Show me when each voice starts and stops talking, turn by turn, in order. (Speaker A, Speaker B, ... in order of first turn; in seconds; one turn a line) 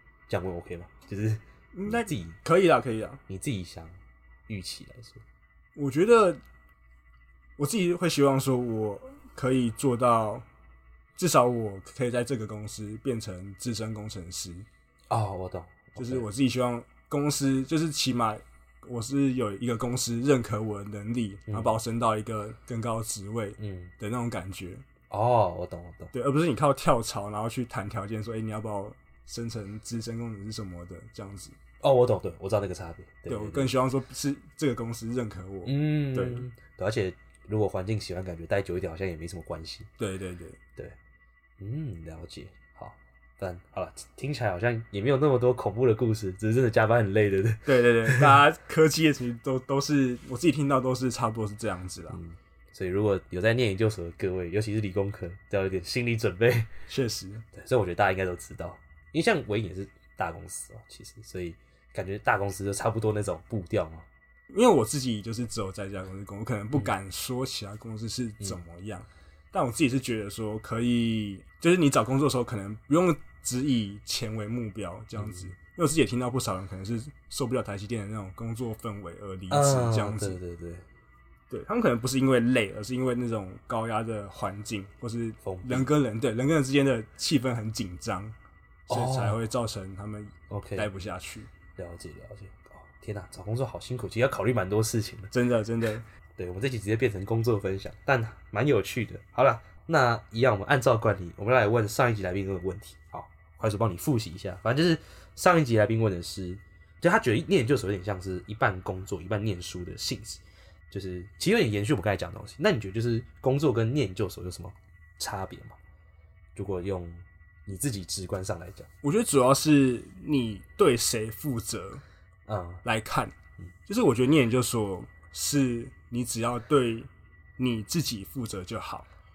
Speaker A: 0.3-2.4
Speaker B: 1.7-3.2
Speaker A: 3.3-3.9
Speaker A: 4.5-5.2
Speaker B: 5.8-6.4
Speaker B: 7.6-10.4
Speaker B: 11.2-14.7
Speaker A: 15.1-16.2
Speaker B: 16.0-24.8
Speaker A: 23.6-23.9
Speaker A: 25.1-26.1
Speaker B: 26.1-31.6
Speaker A: 31.8-33.7
Speaker B: 33.3-36.5
Speaker A: 35.6-39.9
Speaker B: 40.0-40.6
Speaker A: 41.6-48.3
Speaker B: 47.6-52.2
Speaker A: 52.1-56.7
Speaker B: 56.9-57.5
Speaker A: 57.5-64.1
Speaker B: 64.5-80.4
Speaker A: 79.5-80.8
Speaker B: 81.5-88.3
Speaker A: 85.4-85.9
Speaker B: 88.9-91.5
Speaker A: 88.9-89.4
Speaker A: 90.5-90.9
Speaker A: 91.8-95.3
Speaker B: 95.3-96.0
Speaker A: 96.4-115.8
Speaker A: 116.5-118.9
Speaker B: 119.0-122.0
Speaker A: 122.5-122.8
Speaker B: 122.8-129.1